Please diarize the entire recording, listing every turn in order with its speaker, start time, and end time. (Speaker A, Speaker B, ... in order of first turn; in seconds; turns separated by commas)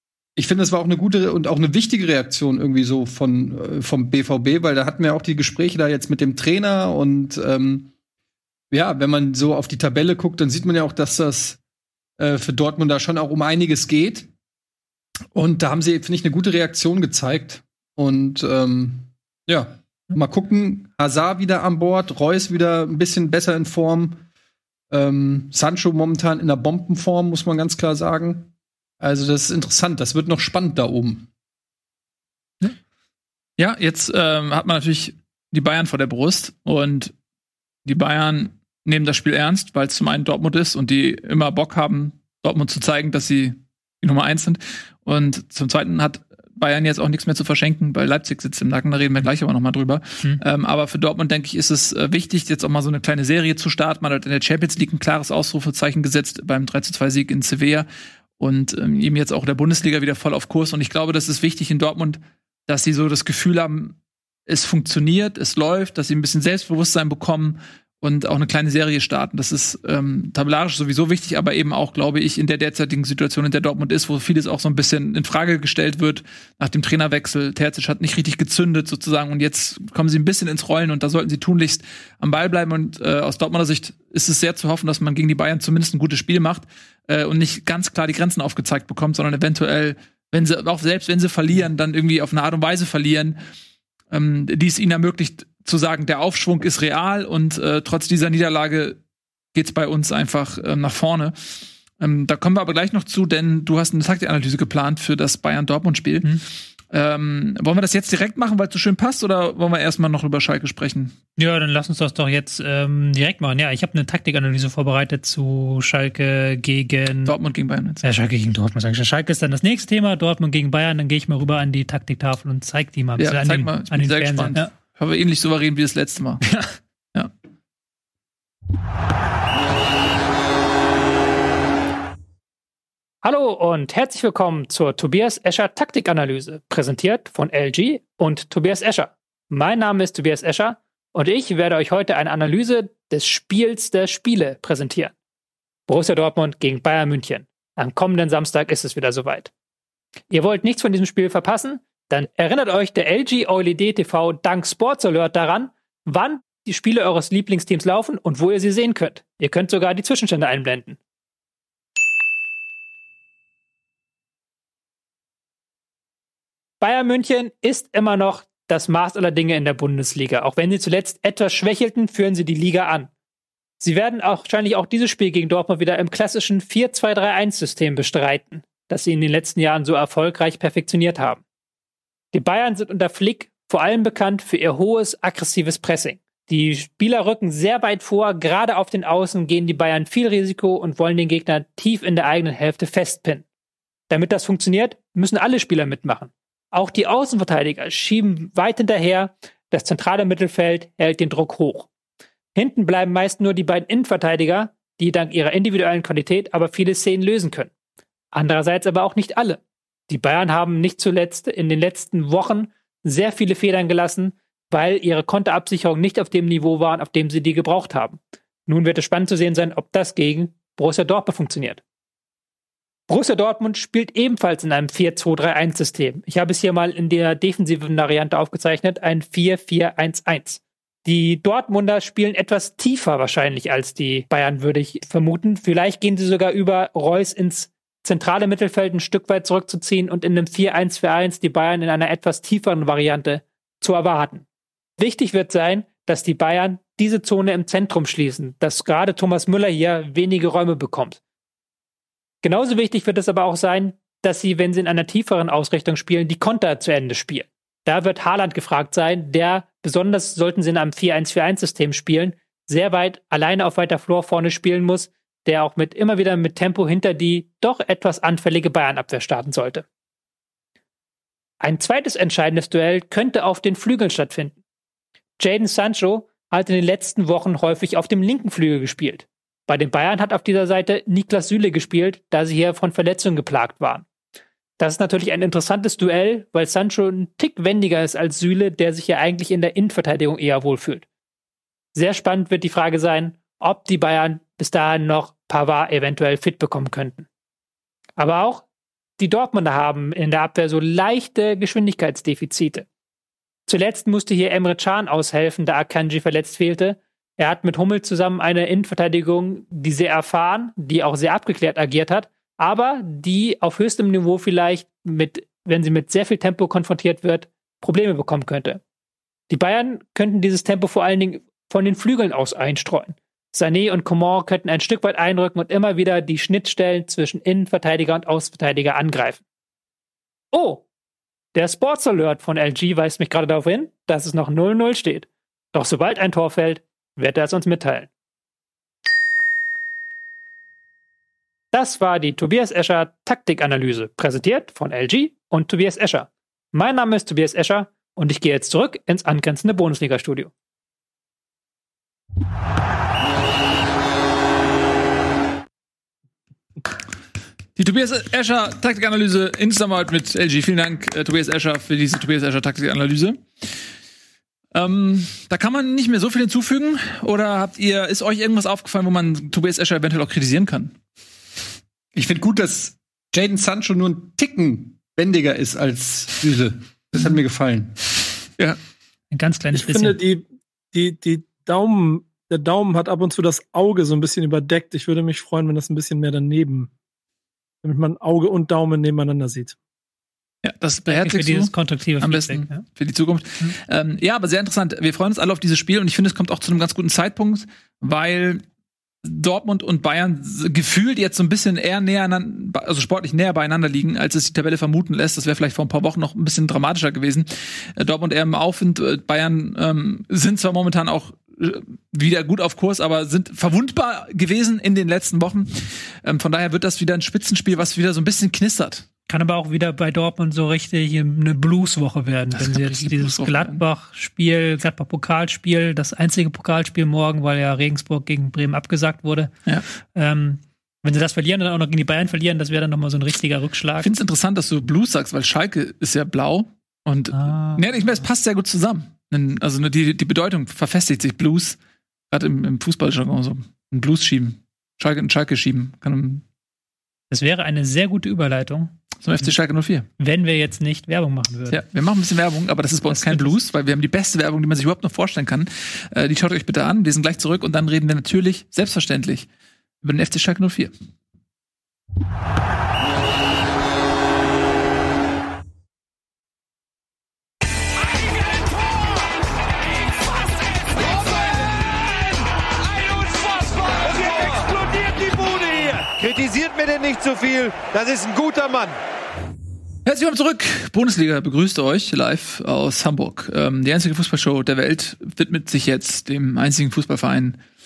Speaker A: 0.3-7.9, Speaker A: 8.7-11.6, Speaker A: 12.2-14.3, Speaker A: 15.3-24.2, Speaker A: 24.9-31.3, Speaker B: 33.6-37.1, Speaker B: 37.8-57.9, Speaker B: 58.4-64.0, Speaker B: 64.5-93.4, Speaker B: 94.1-99.0, Speaker B: 99.5-101.3, Speaker B: 102.0-106.3, Speaker B: 106.9-111.1, Speaker C: 111.4-117.3, Speaker B: 117.2-118.0, Speaker C: 118.0-124.7, Speaker B: 123.2-126.5, Speaker C: 133.2-145.1, Speaker C: 145.9-149.5, Speaker C: 150.3-161.0, Speaker C: 166.8-173.1, Speaker C: 173.8-181.4, Speaker C: 182.3-193.4, Speaker C: 194.1-201.9, Speaker C: 202.5-207.7, Speaker C: 208.3-221.8, Speaker C: 223.1-244.4, Speaker C: 245.0-251.2, Speaker C: 252.4-269.8, Speaker C: 271.6-274.6, Speaker C: 275.4-284.1, Speaker C: 284.8-291.0, Speaker C: 291.9-297.3, Speaker C: 298.2-298.6, Speaker C: 299.2-302.9, Speaker C: 303.7-318.8, Speaker C: 319.5-329.4, Speaker C: 330.5-330.8, Speaker C: 331.5-338.1, Speaker C: 341.7-350.5, Speaker B: 357.8-363.4, Speaker B: 364.7-370.9, Speaker A: 372.1-377.9, Speaker C: 379.3-380.2, Speaker D: 379.7-386.9, Speaker D: 387.8-389.8, Speaker B: 390.6-398.6, Speaker C: 391.1-392.8, Speaker B: 399.2-419.1, Speaker C: 419.3-429.5, Speaker B: 422.5-423.8, Speaker C: 430.1-434.1, Speaker B: 434.0-441.8, Speaker C: 437.3-437.8, Speaker B: 442.3-446.4, Speaker C: 447.3-448.9, Speaker B: 449.2-450.1, Speaker C: 450.2-451.8, Speaker B: 451.7-459.5, Speaker C: 453.1-453.6, Speaker B: 460.0-460.9, Speaker E: 470.9-471.8, Speaker E: 472.9-478.9, Speaker B: 480.0-487.6